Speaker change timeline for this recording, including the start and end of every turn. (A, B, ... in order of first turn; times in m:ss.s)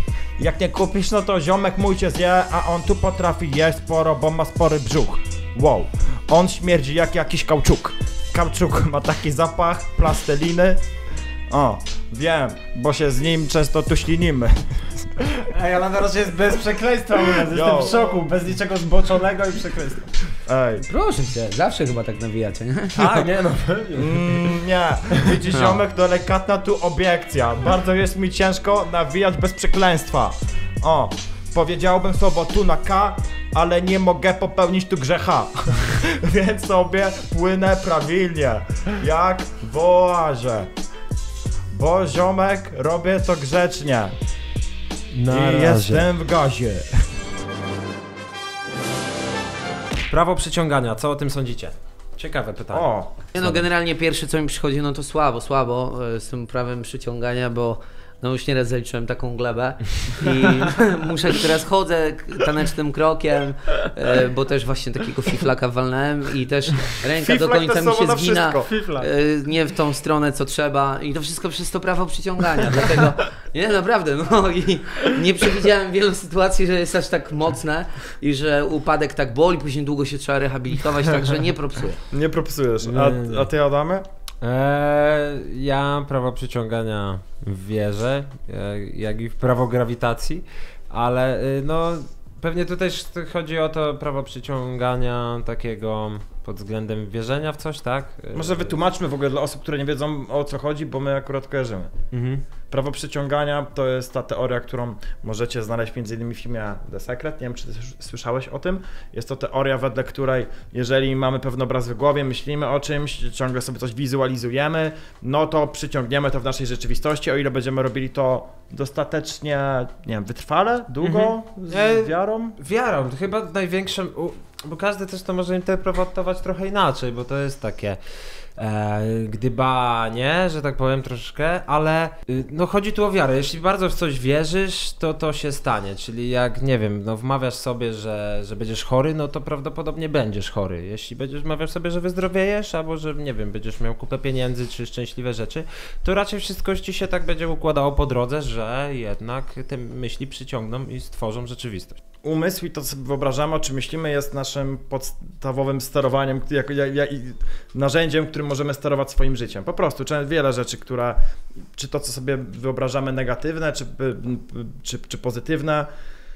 0:00.4-0:10.8 A
0:11.5-0:15.1 A
0:15.5-0:20.2 B
0:17.5-0:18.0 A
0:20.4-0:20.9 A
0:20.9-0:23.1 C
0:23.0-0:24.5 B
0:24.0-0:40.7 A
0:41.7-0:44.1 A
0:45.1-0:46.1 B
0:45.3-0:47.0 A
0:50.1-0:53.6 B
0:52.7-0:53.1 A
0:53.3-1:22.0 C
1:07.2-1:08.7 A
1:08.7-1:09.1 B
1:22.1-1:24.0 A
1:22.8-1:23.5 B
1:24.4-1:38.7 B
1:38.3-1:41.9 A
1:42.1-1:42.4 B
1:42.7-2:02.6 A
2:01.0-2:08.0 B
2:08.6-2:32.0 B
2:32.2-2:41.2 A
2:41.8-2:45.9 A